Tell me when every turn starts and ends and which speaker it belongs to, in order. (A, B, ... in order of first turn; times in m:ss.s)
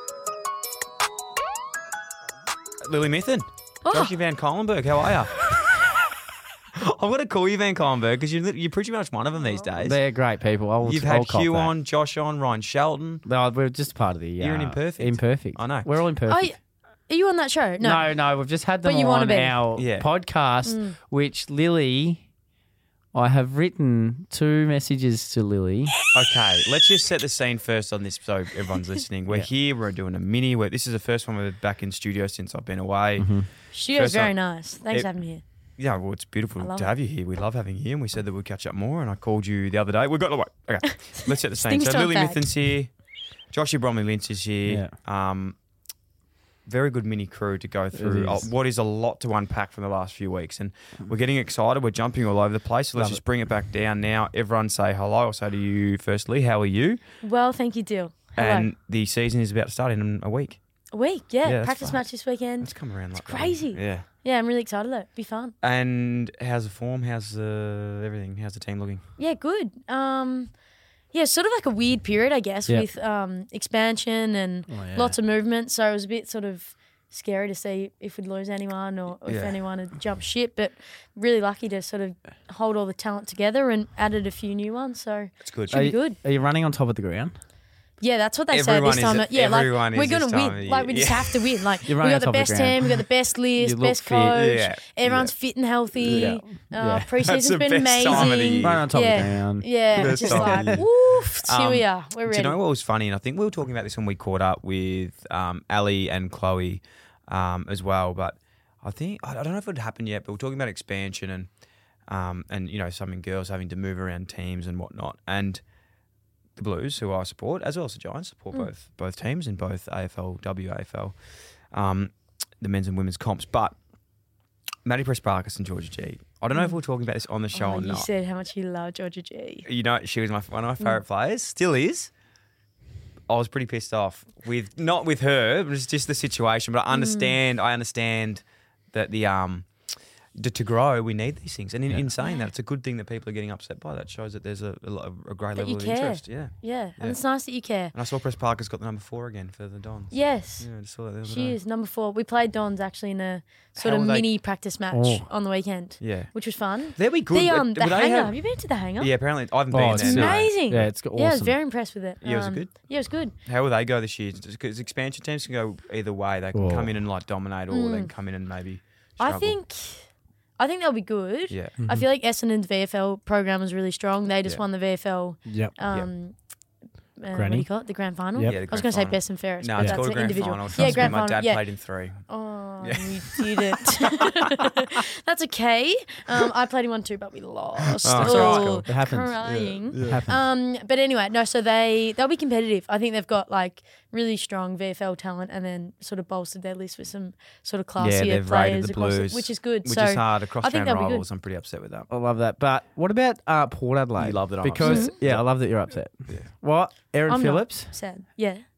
0:02.8-0:05.5 A
0:03.8-0:04.1 B
0:06.7-0:10.0 A
0:09.8-0:11.7 C
0:10.8-0:13.2 A
0:13.2-0:16.5 C
0:14.4-0:15.9 A
0:16.3-0:16.6 B
0:17.1-0:18.1 B
0:17.8-0:22.2 C
0:18.8-0:19.6 B
0:19.7-0:20.1 A
0:20.6-0:21.0 B
0:23.1-0:26.0 C
0:26.1-0:34.3 A
0:33.2-0:33.5 C
0:33.7-0:35.4 B
0:35.8-0:42.9 A
0:36.6-0:36.9 B
0:40.8-0:42.5 B
0:43.5-0:45.6 A
0:44.7-0:44.9 C
0:46.6-0:57.0 A
0:47.9-0:48.5 C
0:53.0-0:53.2 C
0:57.2-0:58.7 B
0:58.4-1:00.6 A
1:00.9-1:05.5 B
1:01.4-1:02.0 A
1:02.6-1:04.0 A
1:05.6-1:09.0 A
1:09.2-1:10.5 B
1:11.1-1:26.2 B
1:14.7-1:15.2 C
1:19.2-1:19.6 A
1:25.4-1:25.9 A
1:25.7-1:27.3 C
1:28.0-1:42.6 B
1:28.5-1:31.6 A
1:31.9-1:32.9 C
1:33.6-1:34.4 C
1:34.2-1:35.3 A
1:36.0-1:36.4 A
1:36.0-1:37.1 C
1:37.2-1:39.4 A
1:38.1-1:40.8 C
1:39.9-1:51.5 A
1:52.1-1:55.6 A
1:56.6-2:01.1 A
2:01.7-2:03.8 A
2:04.8-2:08.1 A
2:07.5-2:09.7 B
2:09.6-2:12.1 A
2:13.3-2:19.7 A
2:16.9-2:17.4 B
2:20.3-2:27.2 A
2:25.6-2:27.9 B
2:27.9-2:31.6 A
2:30.1-2:39.1 B
2:33.8-2:34.3 A
2:34.9-2:35.2 C
2:36.0-2:36.3 A
2:36.9-2:38.4 A
2:39.0-2:40.9 A
2:39.7-2:41.6 C
2:39.8-2:43.3 B
2:42.2-2:49.6 A
2:46.5-2:47.0 C
2:47.7-2:48.1 B
2:49.2-2:56.4 B
2:51.5-2:51.8 A
2:51.8-2:52.0 C
2:55.4-2:55.7 C
2:57.2-3:01.6 B
2:57.3-2:57.7 C
2:58.4-3:02.2 A
2:59.8-3:01.2 C
3:02.2-3:21.2 B
3:02.8-3:04.7 A
3:07.8-3:08.9 A
3:08.1-3:09.4 C
3:09.4-3:10.3 A
3:10.0-3:10.4 C
3:18.0-3:22.1 A
3:22.1-3:27.9 C
3:24.2-3:25.4 A
3:24.8-3:25.1 B
3:27.3-3:28.6 B